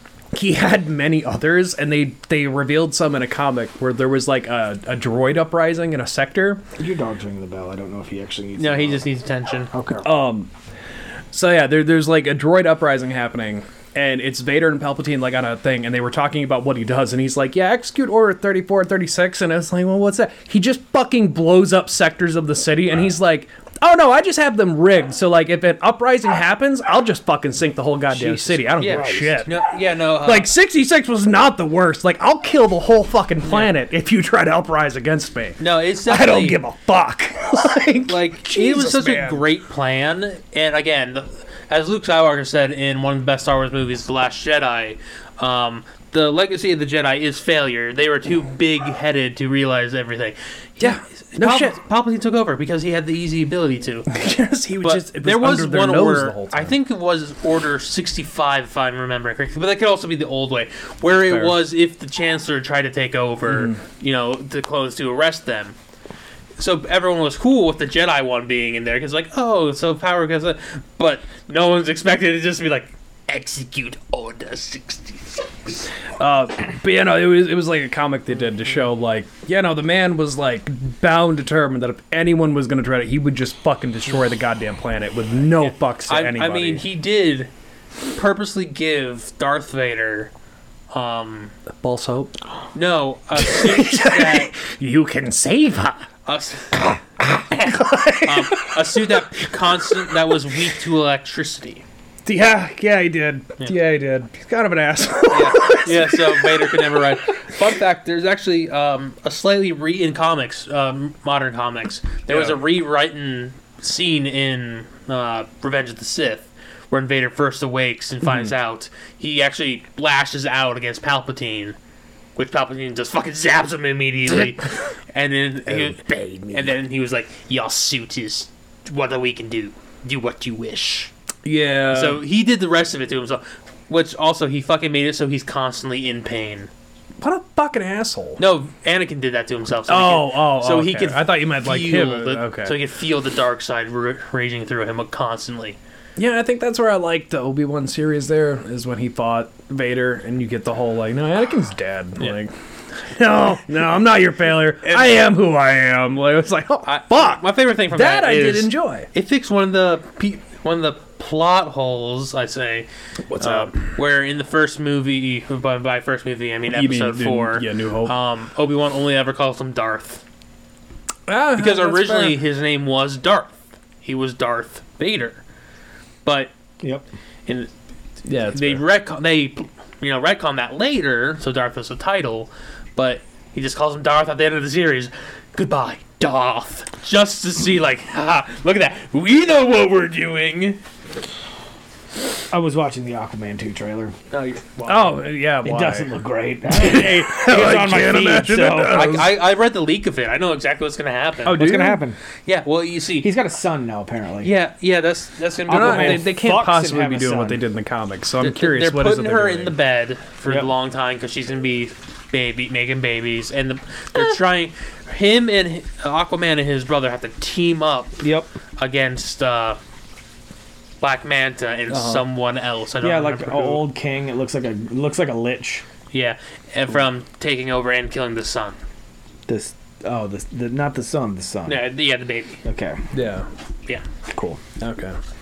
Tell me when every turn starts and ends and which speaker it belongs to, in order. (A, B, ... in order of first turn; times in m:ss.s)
0:00.3-0:06.6 A
0:06.8-0:09.1 B
0:08.6-0:09.7 C
0:09.7-0:10.1 B
0:10.0-0:10.5 A
0:11.3-0:29.6 A
0:28.1-0:30.5 C
0:28.8-0:29.3 B
0:30.2-0:39.4 A
0:33.4-0:33.7 C
0:35.6-0:36.6 C
0:38.1-0:54.1 C
0:50.8-0:51.8 A
0:54.1-0:56.8 A
0:54.8-1:05.7 C
1:01.3-1:01.6 A
1:03.5-1:03.8 A
1:06.6-1:15.8 C
1:16.2-1:26.8 A
1:26.1-1:27.5 C
1:28.1-1:30.3 C
1:30.9-1:31.5 C
1:31.8-1:32.4 A
1:32.7-1:34.6 C
1:33.4-1:36.1 A
1:36.3-1:37.0 C
1:37.2-1:39.0 A
1:37.5-1:41.8 C
1:42.2-1:47.2 A
1:45.3-2:01.8 C
1:52.3-1:52.6 A
2:02.4-2:11.1 C
2:05.7-2:06.7 A
2:11.4-2:12.2 A
2:11.9-2:16.7 C
2:17.2-2:18.4 A
2:18.4-2:25.8 C
2:19.9-2:22.8 A
2:26.2-2:39.1 A
2:34.8-2:35.1 C
2:36.8-2:50.2 C
2:43.3-2:43.8 A
2:46.7-2:48.1 A
2:51.3-2:52.4 A
2:51.6-2:55.4 C
2:56.2-2:56.5 C
2:58.2-2:58.8 A
2:58.5-3:10.8 C
3:12.5-3:14.1 B
3:14.3-3:15.2 C
3:14.9-3:16.1 A
3:15.6-3:19.0 B
3:16.7-3:19.4 A
3:18.8-3:21.6 C
3:21.4-3:22.0 A
3:21.4-3:22.2 B
3:22.4-3:23.3 C
3:23.2-3:24.5 B
3:24.4-3:26.3 C
3:25.7-3:27.6 B
3:25.7-3:29.7 A
3:28.4-3:38.2 C
3:38.2-3:38.5 B
3:38.8-3:39.8 C
3:41.0-3:43.9 C
3:41.9-3:42.2 A
3:43.0-3:45.8 B
3:46.1-3:48.8 C
3:49.5-3:51.8 B
3:51.7-3:52.6 C
3:52.6-3:53.0 B
3:53.1-3:53.5 A
3:54.3-3:54.6 B
3:54.8-3:55.2 A